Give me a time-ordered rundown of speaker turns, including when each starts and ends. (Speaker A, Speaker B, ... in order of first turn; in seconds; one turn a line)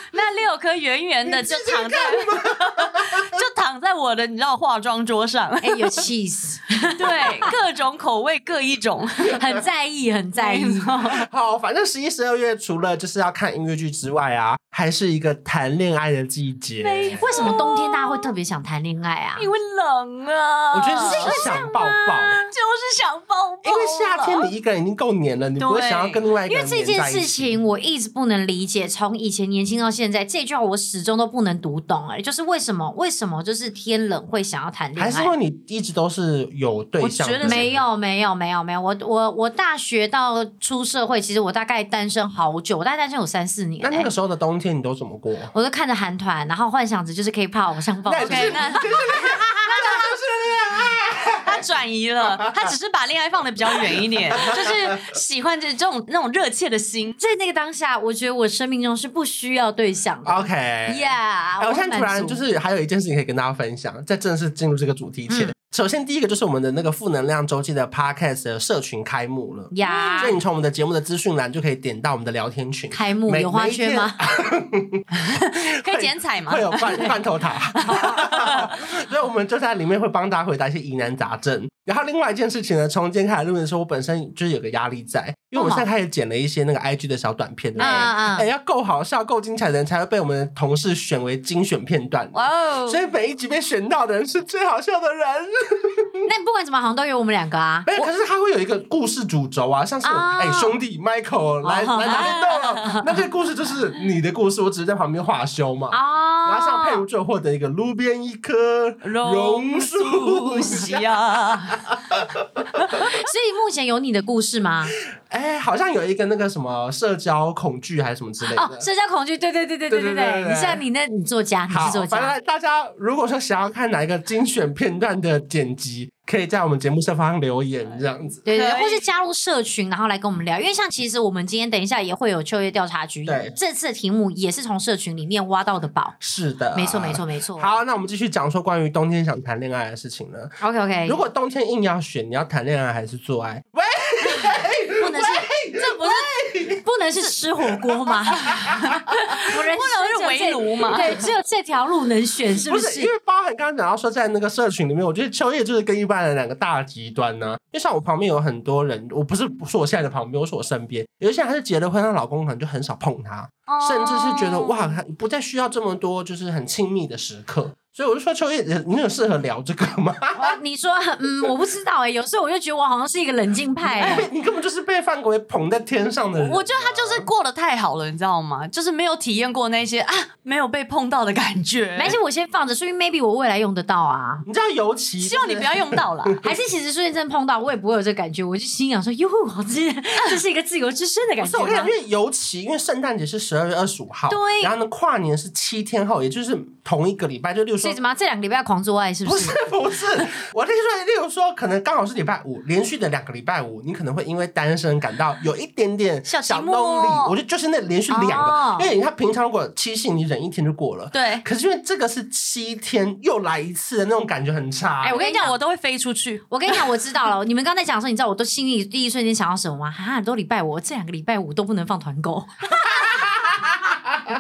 Speaker A: 0.1-6.1
Speaker B: 1.2-3.4
Speaker C: 5.6-7.5
Speaker A: 7.0-9.4
Speaker C: 9.3-10.9
Speaker A: 10.4-11.2
Speaker B: 11.1-17.5
Speaker A: 16.8-18.3
Speaker C: 17.1-19.5
Speaker A: 19.4-24.5
Speaker B: 20.7-22.4
Speaker C: 21.0-21.7
Speaker B: 23.6-27.6
Speaker A: 25.6-26.3
Speaker C: 26.5-35.3
Speaker B: 35.0-37.8
Speaker A: 37.0-37.7
Speaker C: 37.4-44.1
Speaker B: 43.8-45.5
Speaker C: 45.5-48.9
Speaker B: 48.1-51.6
Speaker A: 48.2-50.0
Speaker A: 51.4-57.2
Speaker B: 52.3-52.7
Speaker B: 54.4-54.8
Speaker C: 57.2-62.4
Speaker B: 60.2-96.3
Speaker C: 65.3-65.5
Speaker C: 69.7-70.4
Speaker A: 69.8-70.4
Speaker C: 72.9-74.2
Speaker A: 75.1-77.1
Speaker A: 77.8-78.7
Speaker C: 77.9-78.2
Speaker C: 85.5-85.9
Speaker C: 87.8-88.5
Speaker A: 87.8-88.1
Speaker A: 92.3-93.0
Speaker C: 96.2-98.1
Speaker B: 97.9-113.0
Speaker C: 100.0-100.8
Speaker C: 101.6-103.2
Speaker C: 105.9-107.0
Speaker A: 109.0-111.9
Speaker C: 113.0-114.9
Speaker B: 115.2-118.9
Speaker C: 118.4-122.3
Speaker B: 119.9-120.8
Speaker B: 121.7-128.4
Speaker A: 128.4-129.0
Speaker C: 128.4-136.2
Speaker B: 133.2-133.6
Speaker B: 136.2-146.8
Speaker C: 136.7-137.7
Speaker C: 140.6-141.2
Speaker C: 145.0-153.1
Speaker B: 148.0-148.8
Speaker A: 148.8-151.3
Speaker B: 152.6-170.6
Speaker A: 163.7-164.9
Speaker C: 170.4-174.3
Speaker B: 173.8-177.3
Speaker A: 174.0-174.3
Speaker A: 176.4-182.2
Speaker C: 182.0-184.4
Speaker B: 184.4-186.3
Speaker A: 185.2-186.4
Speaker C: 186.4-191.9
Speaker B: 191.4-198.0
Speaker A: 194.3-194.7
Speaker C: 197.8-199.6
Speaker B: 199.2-215.2
Speaker A: 206.3-207.3
Speaker C: 208.1-208.9
Speaker A: 211.1-211.4
Speaker C: 215.0-215.6
Speaker A: 215.1-216.9
Speaker C: 216.5-223.9
Speaker B: 222.9-224.2